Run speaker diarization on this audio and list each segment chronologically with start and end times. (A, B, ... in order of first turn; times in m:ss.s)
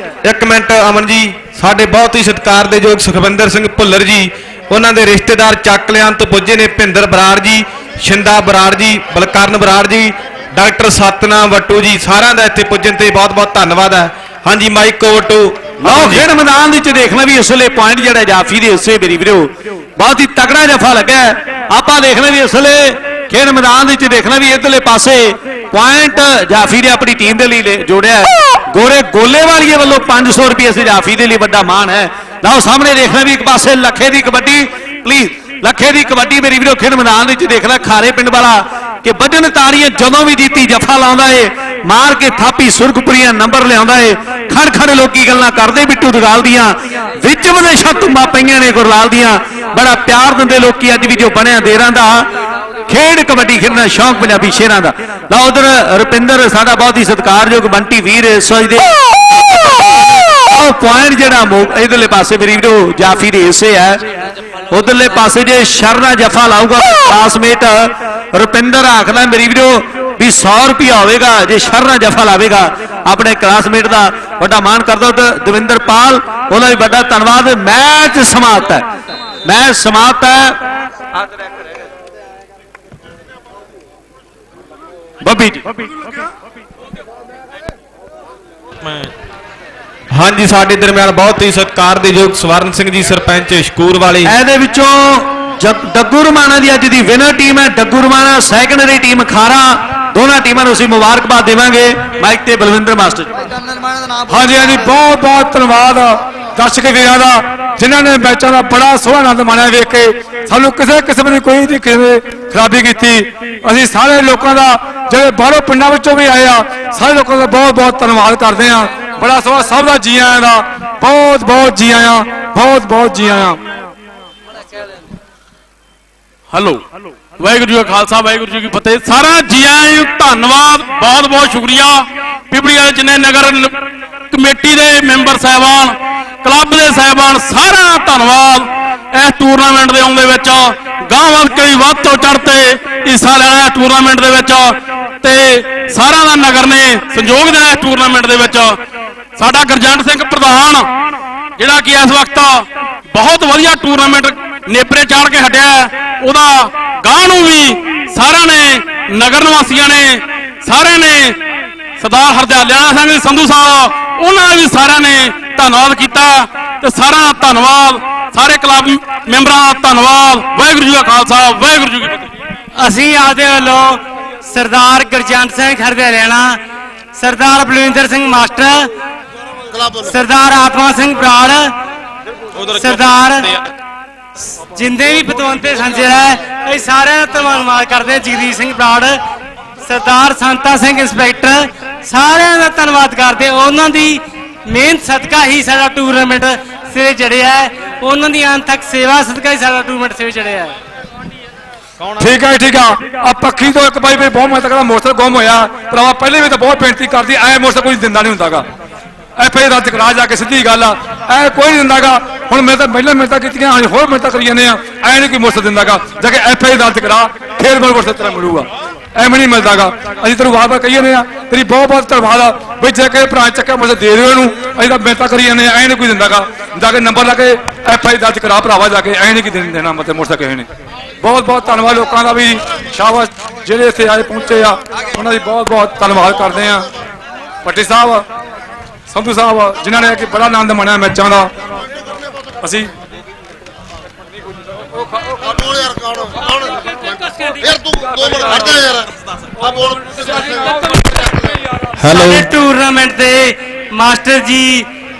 0:00.2-0:16.2 A
0:15.8-0:52.3 B
0:52.9-0:59.0 B
0:59.5-0:59.8 B
1:00.4-1:04.0 B
1:04.7-1:18.8 B
1:19.4-1:20.6 B
1:25.2-1:25.6 B
1:30.1-1:34.3 A
1:34.2-1:43.3 B
1:44.3-2:03.6 C
2:06.5-2:06.8 D
2:07.4-2:13.8 D
2:14.3-2:28.8 D
2:29.4-2:30.9 D
2:31.6-2:41.4 D
2:42.0-2:52.3 D
2:52.7-2:56.6 E
2:57.1-2:58.9 E
2:59.9-3:01.7 E
3:02.7-3:03.5 E
3:04.7-3:09.2 E
3:09.8-3:20.8 E
3:22.2-3:28.6 C
3:29.4-3:50.6 C
3:51.2-3:56.9 C
3:57.6-3:58.2 C
3:59.1-4:01.5 C
4:02.6-4:02.9 C
4:05.6-4:06.3 F
4:07.8-4:09.1 F
4:07.9-4:08.8 C
4:12.0-4:12.4 A
4:12.1-4:14.9 E